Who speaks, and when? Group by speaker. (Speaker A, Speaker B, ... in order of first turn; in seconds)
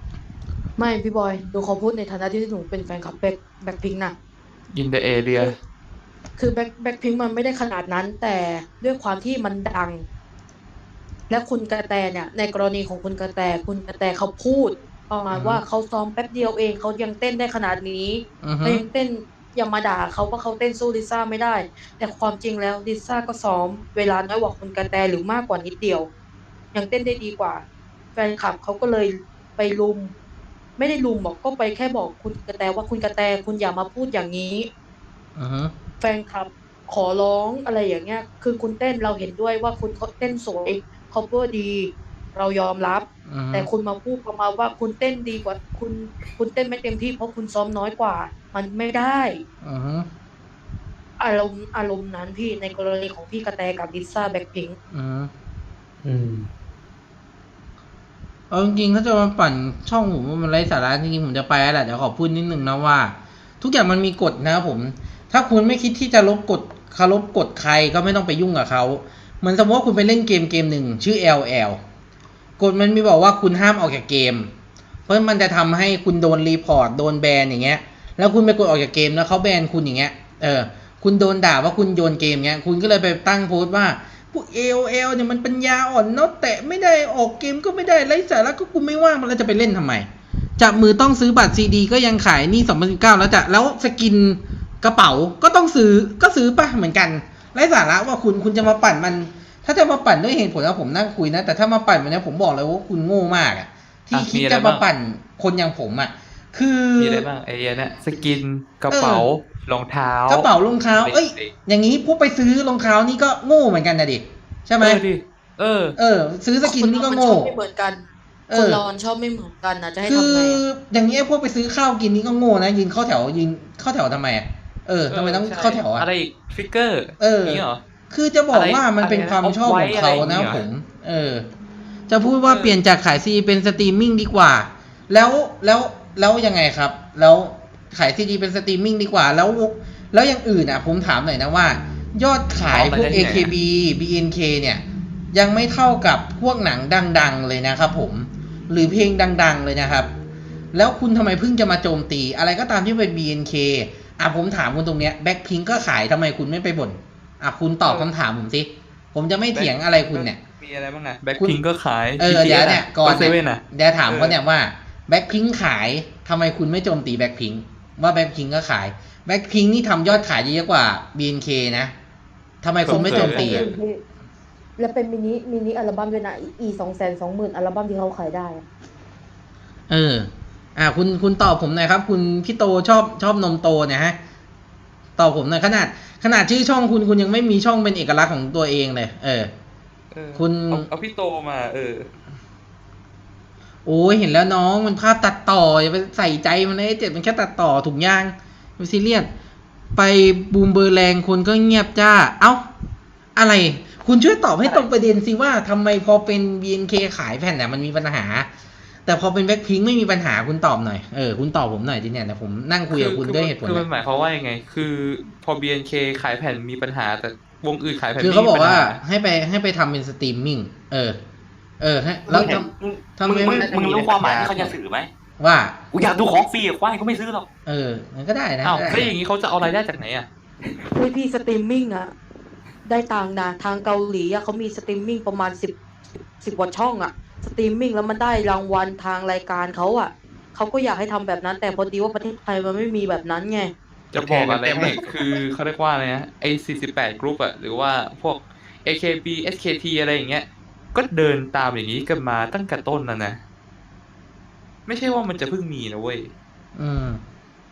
Speaker A: 0.8-4.1, 6.4-10.0, 11.3-26.1, 26.7-27.6, 28.1-30.1, 30.8-34.7, 36.0-49.4, 51.2-54.8, 116.6-120.6, 172.9-174.0, 174.8-178.6, 230.9-232.1, 232.8-235.7, 236.4-243.7
Speaker B: 4.7-5.5, 104.1-104.8, 107.0-111.5, 114.8-116.0, 125.1-127.8, 128.5-130.7, 132.4-132.8, 142.7-143.5, 157.8-158.1, 159.5-164.4, 172.8-173.7, 190.1-192.1, 204.6-204.9, 212.9-219.0, 224.2-224.7, 228.6-230.3, 244.1-253.4, 254.8-256.3
Speaker C: 15.3-15.6, 18.4-18.8, 35.4-35.7, 43.3-43.7, 49.6-50.1, 54.9-55.3, 58.5-71.8, 72.6-74.5, 75.1-90.1, 90.6-107.3, 108.9-109.3, 110.3-115.0, 116.0-117.5, 118.5-118.8, 120.1-126.1, 127.2-131.4, 132.1-150.1, 150.7-160.4, 162.2-171.9, 172.6-173.7, 179.9-184.2, 185.2-189.5, 190.3-190.9, 193.8-199.3, 199.9-202.7, 203.3-208.5, 209.1-213.8, 218.2-221.2, 221.8-224.7, 225.4-225.8, 227.7-229.1, 256.7-257.2
Speaker D: 56.0-56.5, 222.3-225.1, 225.9-227.5, 244.2-244.9